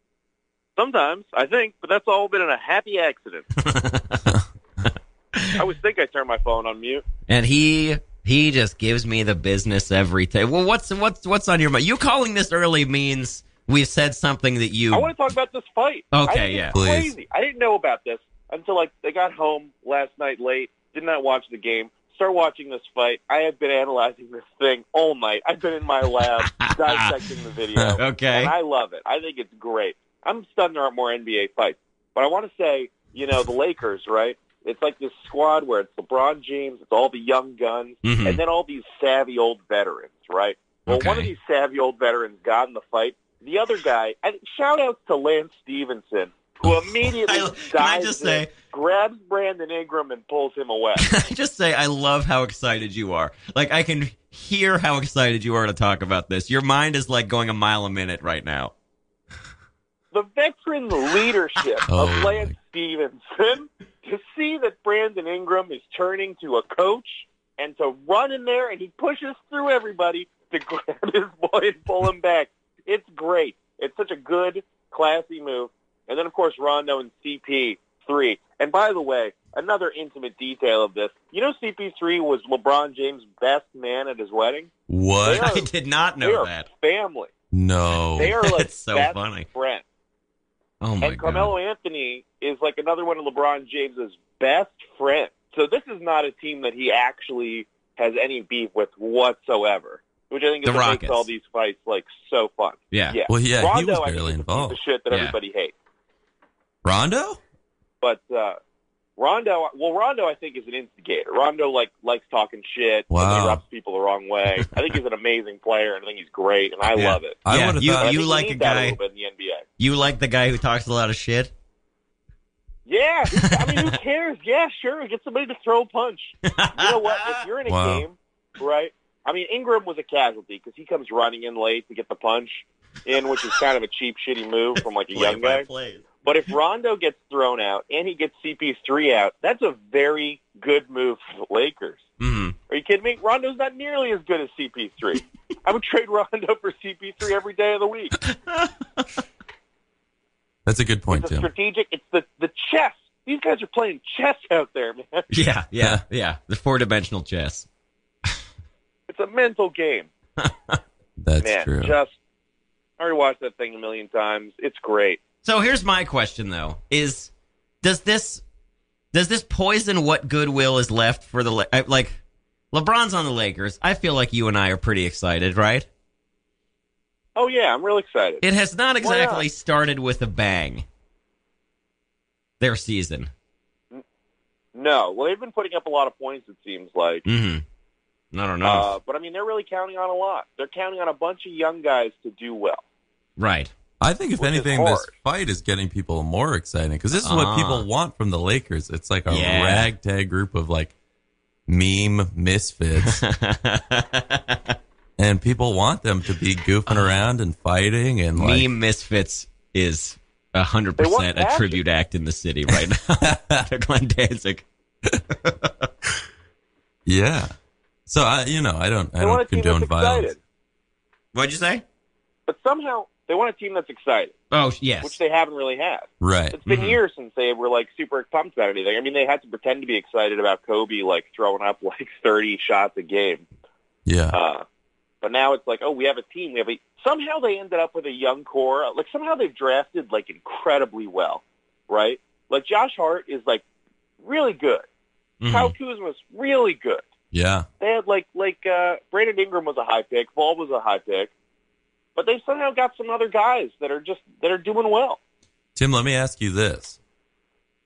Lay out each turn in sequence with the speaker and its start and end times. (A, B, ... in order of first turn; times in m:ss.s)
0:00.8-0:03.5 A
0:03.6-0:04.3 B
0:05.6-0:07.0 A
0:07.3-0:15.1 B
0:14.9-0:51.1 A
0:16.1-0:16.8 B
0:16.7-0:17.2 C
0:26.2-0:27.1 B
0:28.0-0:28.5 B
0:38.0-0:38.4 B
0:40.9-0:41.3 B
0:46.6-0:48.5 B
0:51.0-0:58.7 B
1:00.1-1:24.7 A
1:01.9-1:02.5 C
1:24.9-1:25.5 C
1:25.2-1:25.7 A
1:25.3-1:26.7 B
1:26.2-1:27.3 A
1:27.5-1:28.4 C
1:28.2-1:29.8 A
1:28.3-1:29.5 B
1:30.8-1:31.5 B
1:31.0-1:45.7 A
1:40.6-1:41.3 B
1:42.9-1:43.2 B
1:43.3-1:44.8 C
1:45.1-1:45.4 B
1:46.8-1:47.4 C
1:48.0-1:48.6 A
1:49.2-1:57.4 A
1:53.1-1:53.6 C
1:57.0-1:58.2 C
1:57.5-1:59.0 B
1:58.0-1:59.6 A
1:59.8-2:01.5 B
2:02.9-2:15.7 A
2:03.4-2:03.9 B
2:06.5-2:07.5 B
2:07.7-2:08.0 C
2:15.1-2:16.0 B
2:16.2-2:22.0 A
2:22.2-2:22.6 B
2:22.7-2:28.2 A
2:28.2-2:29.1 B
2:30.7-2:31.5 C
2:31.1-2:35.3 A
2:35.3-2:37.7 B
2:39.1-2:40.1 A
2:40.4-2:40.8 B
2:41.2-2:42.0 C
2:41.4-2:42.1 A
2:43.0-2:45.2 A
2:45.4-2:47.3 B
2:47.8-2:48.4 B
2:49.1-2:52.2 B
2:52.7-2:55.9 B
2:57.4-2:58.4 A
2:58.4-3:00.8 B
2:59.0-2:59.4 A
3:02.6-3:03.3 B
3:04.8-3:07.2 A
3:07.2-3:07.6 B
3:08.3-3:08.9 B
3:08.6-3:12.8 A
3:13.4-3:13.7 B
3:14.0-3:20.9 C
3:14.4-3:15.1 A
3:17.2-3:17.9 B
3:19.3-3:19.9 B
3:21.7-3:23.2 C
3:23.0-3:24.8 B
3:25.2-3:28.7 C
3:26.9-3:27.2 B
3:28.4-3:34.7 B
3:31.0-3:31.8 A
3:33.2-3:33.6 C
3:35.4-3:35.9 B
3:37.1-3:37.5 C
3:38.1-3:40.4 C
3:39.2-3:40.4 A
3:41.3-3:41.8 B
3:42.5-3:44.4 A
3:44.5-3:45.2 B
3:45.0-3:53.4 A
3:46.2-3:47.0 C
3:54.1-3:54.4 C
3:54.3-3:54.6 A
3:55.2-4:03.6 A
4:04.2-4:04.8 A
4:05.4-4:05.7 B
4:05.5-4:07.0 A
4:07.3-4:07.7 C
4:07.8-4:11.3 A
4:12.2-4:15.2 A
4:15.8-4:17.0 C